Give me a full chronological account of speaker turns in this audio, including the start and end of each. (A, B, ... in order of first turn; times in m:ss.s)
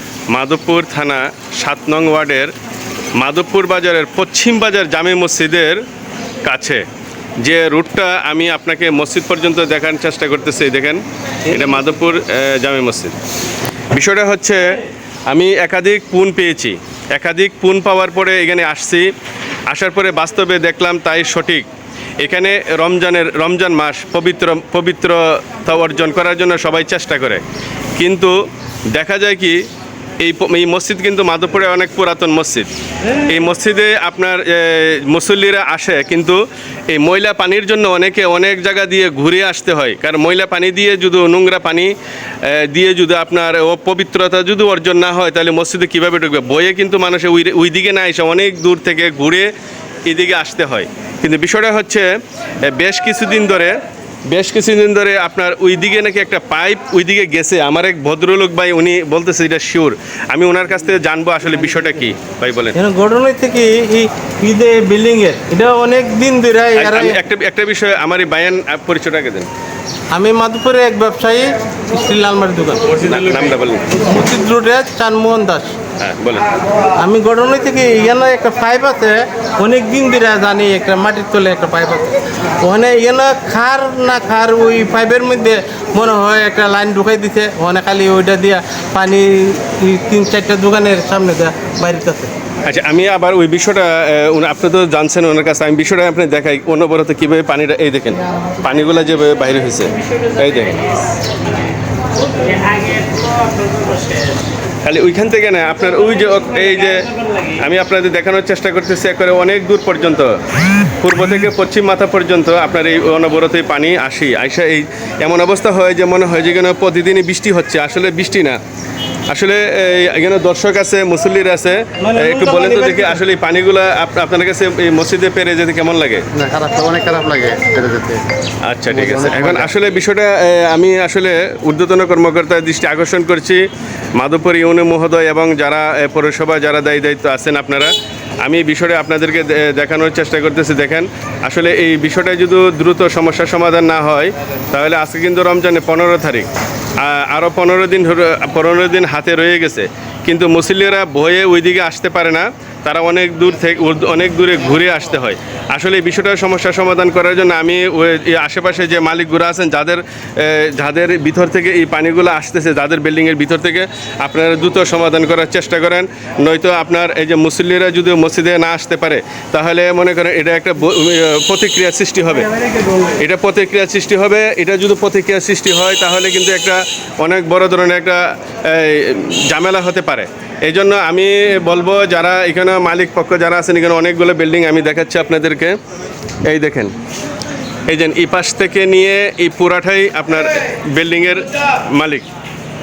0:00.3-0:02.5 A
0:03.2-0:05.8 A
0:06.4-0:06.8 A
0:07.4-0:13.2 A
0:13.9-0:19.1 A
0:19.7-0:21.7 A
0:22.2-0:27.4 A
0:28.0-0:28.3 A
0:28.9-0:29.6 A
0:30.2-0:36.4 A
0:36.9-0:41.9 A
0:42.5-0:49.5 A
0:50.1-0:52.1 A
0:52.7-0:53.7 A
0:54.3-1:02.8 A
1:02.8-1:07.2 B
1:06.8-1:09.5 A
1:10.1-1:13.3 B
1:13.0-1:13.9 A
1:14.0-1:15.8 B
1:16.0-1:16.4 A
1:17.0-1:32.3 B
1:32.6-1:40.8 A
1:44.8-1:47.0 A
1:47.6-1:50.3 A
1:51.0-1:58.6 A
1:59.3-2:06.2 A
2:02.0-2:03.2 B
2:06.4-2:08.2 C
2:08.6-2:13.6 A
2:08.9-2:09.7 C
2:14.2-2:17.9 A
2:18.4-2:26.5 A
2:27.0-2:52.5 A
2:53.2-3:05.8 A
3:06.5-3:06.9 A
3:07.9-3:12.3 A